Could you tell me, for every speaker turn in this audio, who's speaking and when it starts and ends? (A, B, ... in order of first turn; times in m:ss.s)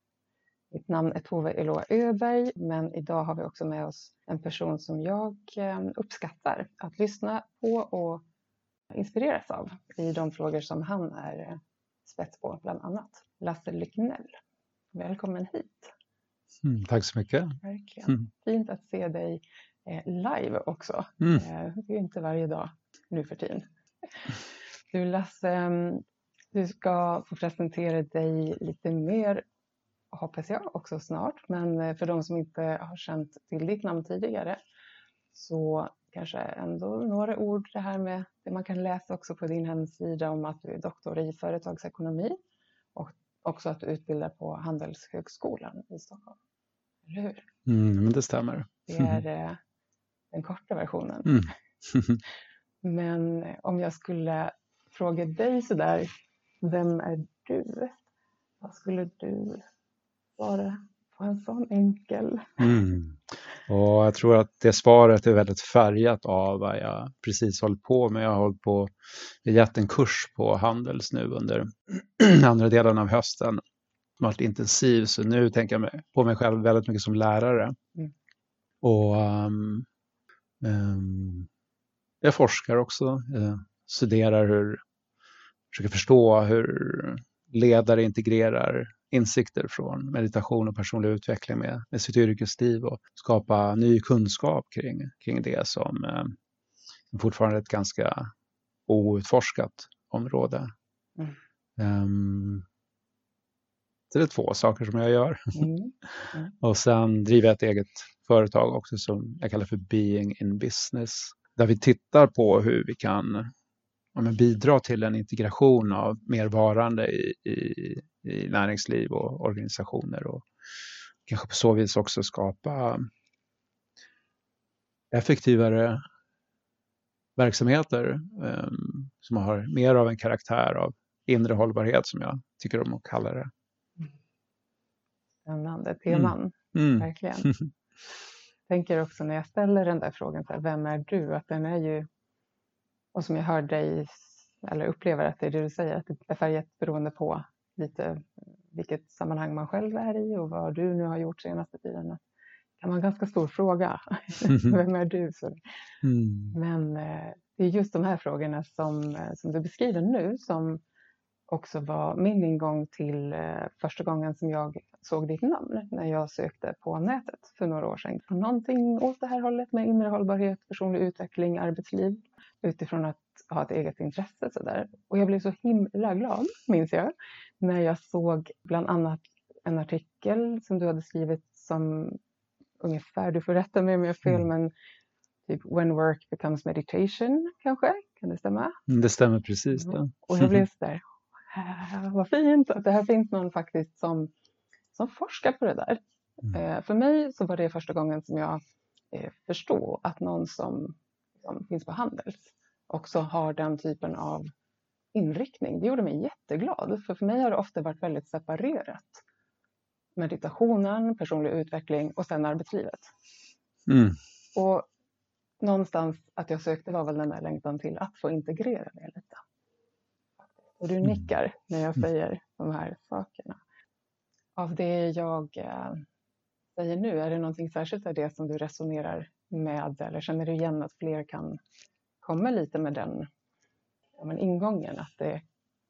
0:00.7-0:08.2 A
0:08.9-0:14.4 A
0:14.9-0:15.9 A
0:16.6-0:18.2 B
0:17.6-0:23.6 A
0:24.9-0:29.4 A
0:30.1-0:34.6 A
0:35.3-0:42.4 A
0:42.9-0:46.4 A
0:47.1-0:47.4 A
0:47.6-0:49.2 B
0:48.9-0:49.6 A
0:50.3-0:51.5 A
0:51.2-0:52.2 B
0:52.8-0:56.1 A
0:56.6-0:58.0 A
0:58.6-0:59.6 A
1:00.4-1:02.7 A
1:02.6-1:13.6 B
1:14.2-1:17.8 B
1:18.8-1:19.9 B
1:20.6-1:21.5 B
1:22.2-1:24.8 B
1:25.7-1:36.4 B
1:37.1-1:38.3 B
1:38.9-1:40.7 B
1:41.8-1:42.6 B
1:44.1-1:53.5 B
1:45.5-1:46.5 A
1:54.1-2:00.4 B
2:01.2-2:03.0 B
2:05.1-2:06.0 B
2:07.4-2:13.5 B
2:15.4-2:17.5 A
2:16.1-2:17.7 B
2:18.7-2:22.1 A
2:23.1-2:32.2 A
2:32.8-2:35.6 A
2:34.5-2:34.7 B
2:36.0-2:36.6 B
2:36.5-2:40.8 A
2:41.5-3:02.2 A
3:02.8-3:04.7 A
3:05.5-3:08.8 A
3:08.9-3:10.6 B
3:09.7-3:14.3 A
3:14.9-3:18.6 A
3:19.1-3:24.5 A
3:25.1-3:29.2 A
3:30.2-3:33.1 A
3:33.9-3:34.2 B
3:34.5-3:34.9 A
3:35.6-3:39.4 A
3:40.8-3:43.6 A
3:44.6-3:46.0 A
3:46.8-3:51.6 A
3:52.2-3:53.3 A
3:54.2-3:55.4 A